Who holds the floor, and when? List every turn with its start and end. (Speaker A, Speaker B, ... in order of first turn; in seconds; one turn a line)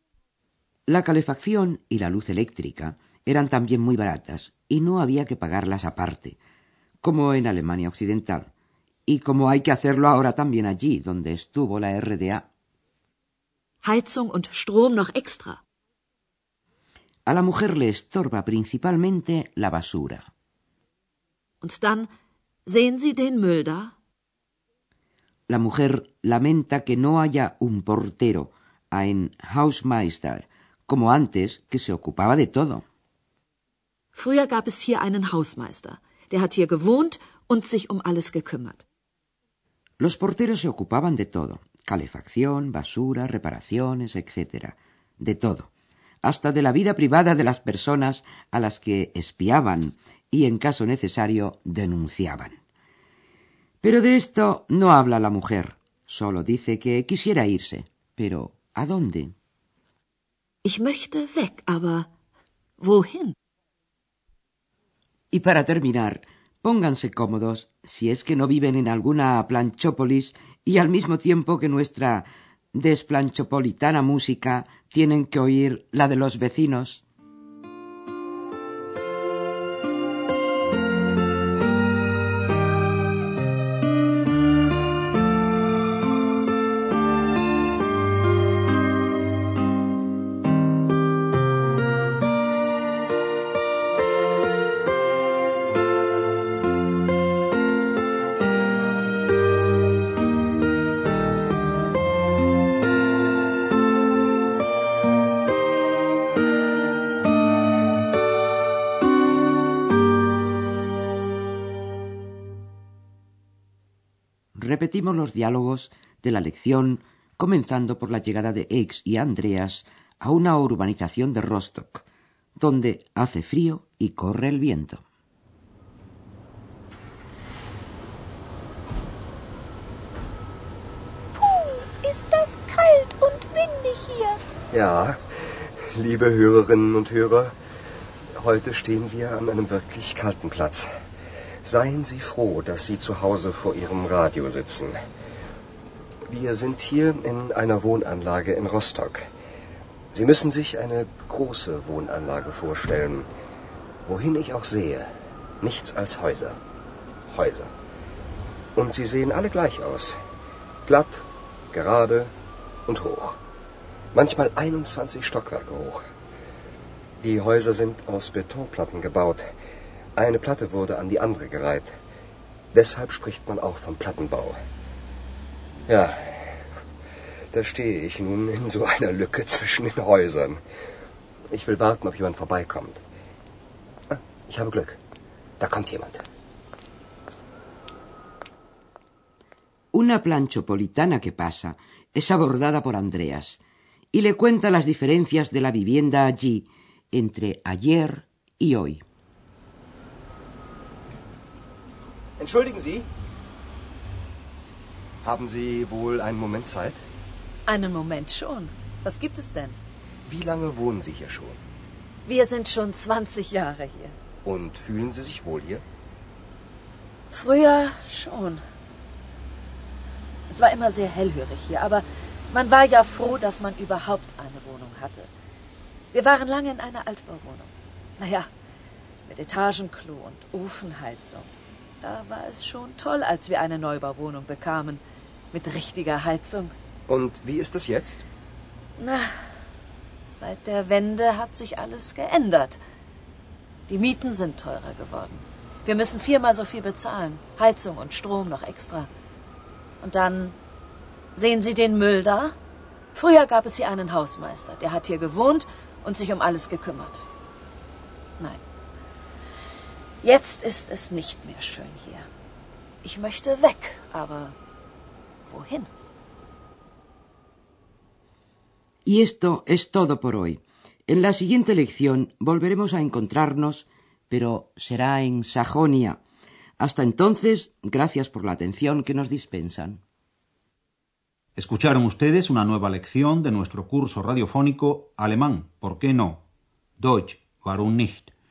Speaker A: 0.9-6.4
Speaker A: 7.0-8.5
Speaker A: 9.1-12.4
Speaker B: 13.8-15.6
Speaker A: 17.2-20.3
Speaker B: 21.6-22.1
Speaker B: 22.6-23.9
Speaker A: 25.5-32.8
Speaker B: 34.1-38.8
Speaker A: 40.0-45.7
Speaker A: 46.2-52.6
Speaker A: 53.8-59.3
Speaker B: 60.6-62.1
Speaker B: 62.8-63.3
Speaker A: 65.3-77.0
Speaker A: 114.5-122.0
Speaker A: 122.6-125.0
Speaker C: 131.3-134.4
Speaker D: 134.7-137.5
Speaker D: 138.3-140.9
Speaker D: 141.6-145.0
Speaker D: 146.3-149.3
Speaker D: 150.1-153.3
Speaker D: 154.0-156.6
Speaker D: 157.3-157.7
Speaker D: 158.8-160.2
Speaker D: 160.8-162.3
Speaker D: 162.9-163.4
Speaker D: 164.1-166.0
Speaker D: 167.2-169.5
Speaker D: 170.2-171.9
Speaker D: 172.7-174.6
Speaker D: 175.9-176.7
Speaker D: 177.5-180.6
Speaker D: 181.5-183.0
Speaker D: 184.1-185.0
Speaker D: 185.6-186.2
Speaker A: 189.9-193.6
Speaker A: 194.1-199.0
Speaker D: 202.4-203.1
Speaker D: 205.2-207.0
Speaker B: 207.7-209.8
Speaker D: 210.2-211.6
Speaker B: 212.2-214.1
Speaker D: 214.4-215.8
Speaker B: 217.3-218.6
Speaker B: 220.5-225.3
Speaker B: 226.1-228.5
Speaker B: 229.2-231.5
Speaker B: 232.0-236.7
Speaker D: 237.1-238.2
Speaker B: 239.0-239.3
Speaker B: 240.3-242.8
Speaker B: 243.9-249.1
Speaker B: 250.0-250.6
Speaker B: 251.3-252.5
Speaker B: 253.1-257.2
Speaker B: 260.2-262.3
Speaker B: 263.0-264.6
Speaker B: 265.4-265.9
Speaker A: 269.0-276.2
Speaker A: 276.8-280.0
Speaker E: 281.6-286.4
Speaker E: 287.0-288.3